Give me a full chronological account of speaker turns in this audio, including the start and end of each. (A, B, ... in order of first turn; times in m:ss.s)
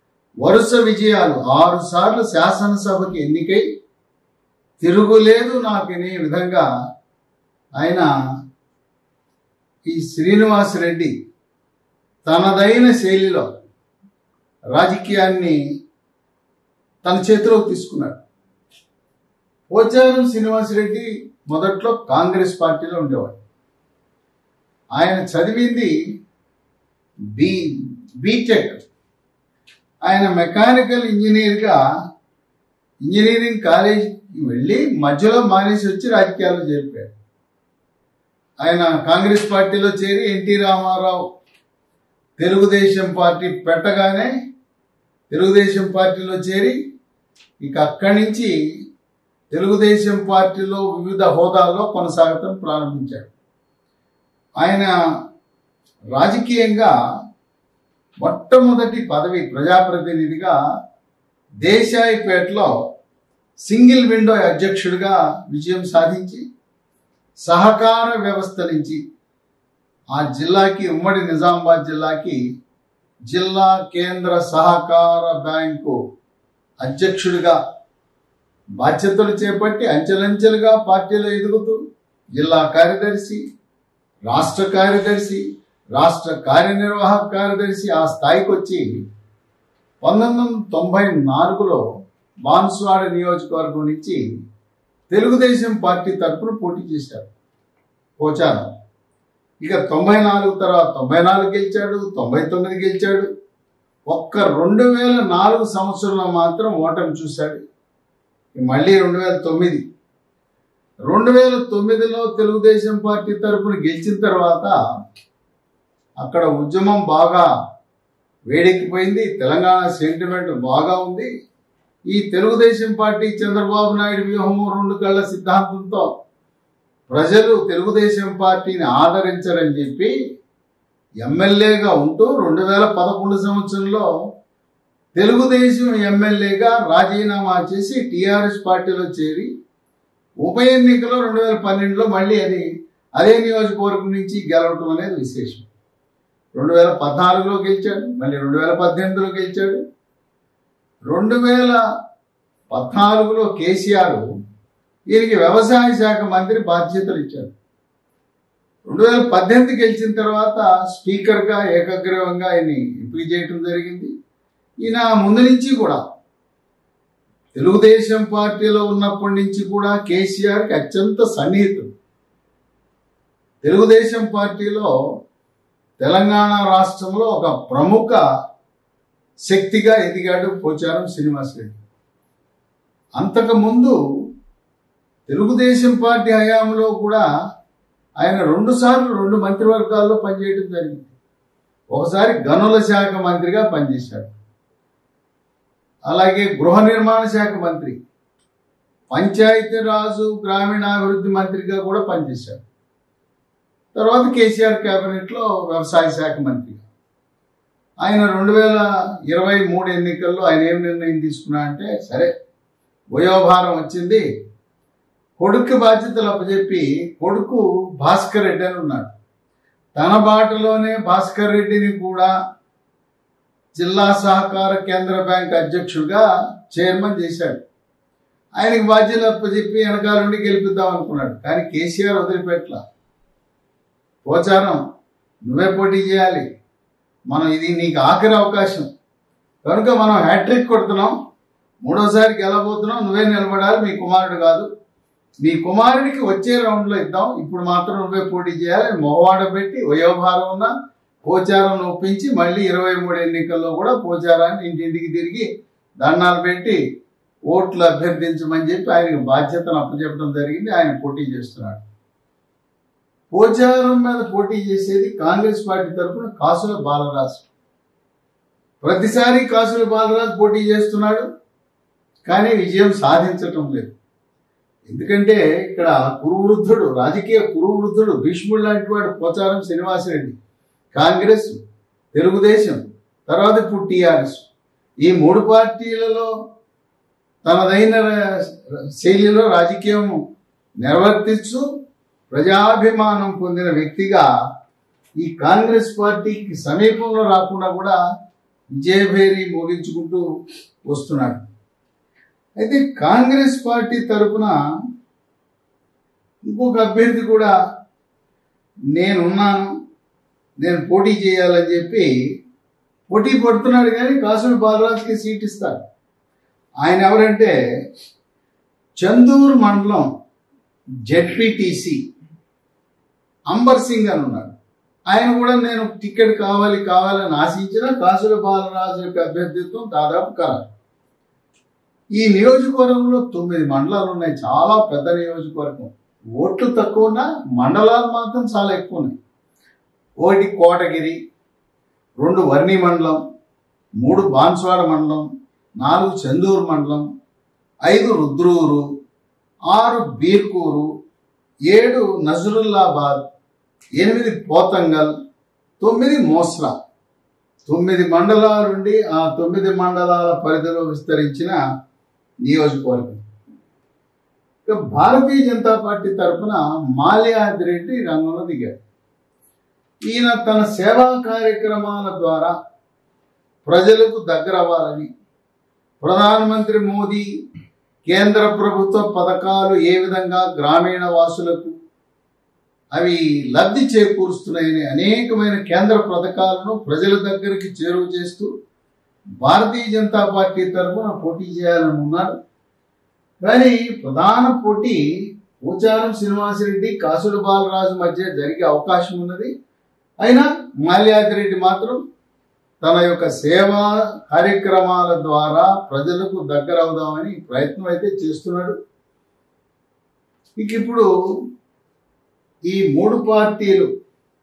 0:00.4-0:03.6 A
0:04.8-0:06.7 A
0:07.8-0:08.1 A
0:09.8-0:11.1 A
0:12.2-0:13.5 A
0:14.7-0:15.6 A
0:17.0-0:18.2 A
0:19.7-0:23.4 A
0:25.0-0:25.9 A
0:27.4-0:27.6 A
0:28.2-0:28.8 A
0:30.0-0:31.8 A
0:33.0-0:37.1 A
0:38.6-0:41.2 A
0:42.4-0:44.3 A
0:45.3-0:46.8 A
0:47.6-0:48.5 A
0:49.5-0:53.3 A
0:54.6-0:54.9 A
0:56.2-0:56.9 A
0:58.2-1:00.6 A
1:01.6-1:02.8 A
1:03.6-1:06.4 A
1:07.5-1:09.0 A
1:10.1-1:12.4 A
1:13.3-1:16.0 A
1:16.8-1:17.6 A
1:18.8-1:21.8 A
1:22.4-1:23.4 A
1:24.3-1:25.4 A
1:26.0-1:28.8 A
1:30.0-1:31.8 A
1:32.5-1:34.2 A
1:35.1-1:37.3 A
1:38.2-1:38.7 A
1:39.6-1:43.3 A
1:44.1-1:47.6 A
1:48.6-1:49.8 A
1:51.1-1:54.7 A
1:56.2-1:57.5 A
1:58.5-2:01.3 A
2:02.1-2:06.1 A
2:07.1-2:10.1 A
2:11.2-2:14.1 A
2:15.2-2:19.5 A
2:20.4-2:22.7 A
2:23.2-2:25.7 A
2:26.6-2:29.8 A
2:31.1-2:31.8 A
2:32.7-2:34.2 A
2:35.1-2:37.5 A
2:38.9-2:44.1 A
2:44.8-2:46.0 A
2:47.6-2:51.9 A
2:53.6-2:54.9 A
2:56.0-2:58.2 A
2:59.5-3:01.8 A
3:03.2-3:04.0 A
3:05.3-3:07.2 A
3:08.2-3:11.1 A
3:11.9-3:14.3 A
3:16.1-3:18.0 A
3:19.1-3:22.6 A
3:23.9-3:26.8 A
3:28.0-3:32.3 A
3:33.1-3:34.2 A
3:35.4-3:39.1 A
3:40.0-3:42.3 A
3:43.8-3:47.6 A
3:48.6-3:52.8 A
3:54.2-3:54.8 A
3:55.5-3:56.5 A
3:57.3-3:58.9 A
3:59.6-4:01.2 A
4:01.8-4:04.7 A
4:05.4-4:10.7 A
4:11.2-4:15.5 A
4:16.0-4:16.8 A
4:17.5-4:21.8 A
4:23.3-4:27.5 A
4:28.8-4:31.3 A
4:32.3-4:34.0 A
4:34.9-4:40.4 A
4:40.9-4:41.6 A
4:42.1-4:44.5 A
4:45.0-4:46.3 A
4:47.4-4:50.2 A
4:50.8-4:51.6 A
4:52.3-4:54.3 A
4:55.2-4:58.0 A
4:58.7-5:00.2 A
5:00.9-5:01.4 A
5:02.6-5:04.6 A
5:06.5-5:07.5 A
5:09.0-5:09.7 A
5:10.6-5:12.1 A
5:13.1-5:15.8 A
5:16.8-5:17.5 A
5:19.0-5:20.1 A
5:21.1-5:22.0 A
5:23.5-5:24.5 A
5:25.1-5:30.7 A
5:32.2-5:39.2 A
5:40.2-5:41.2 A
5:42.2-5:43.2 A
5:44.0-5:47.1 A
5:47.8-5:48.8 A
5:49.7-5:50.9 A
5:51.7-5:53.3 A
5:54.0-5:55.1 A
5:55.8-5:56.7 A
5:57.7-6:01.6 A
6:02.4-6:03.2 A
6:04.7-6:08.7 A
6:10.1-6:12.6 A
6:13.6-6:15.1 A
6:16.0-6:17.2 A
6:18.1-6:21.8 A
6:23.0-6:28.5 A
6:29.4-6:32.4 A
6:33.4-6:35.0 A
6:35.6-6:39.5 A
6:40.2-6:42.0 A
6:42.8-6:48.8 A
6:50.6-6:51.1 A
6:52.7-6:53.9 A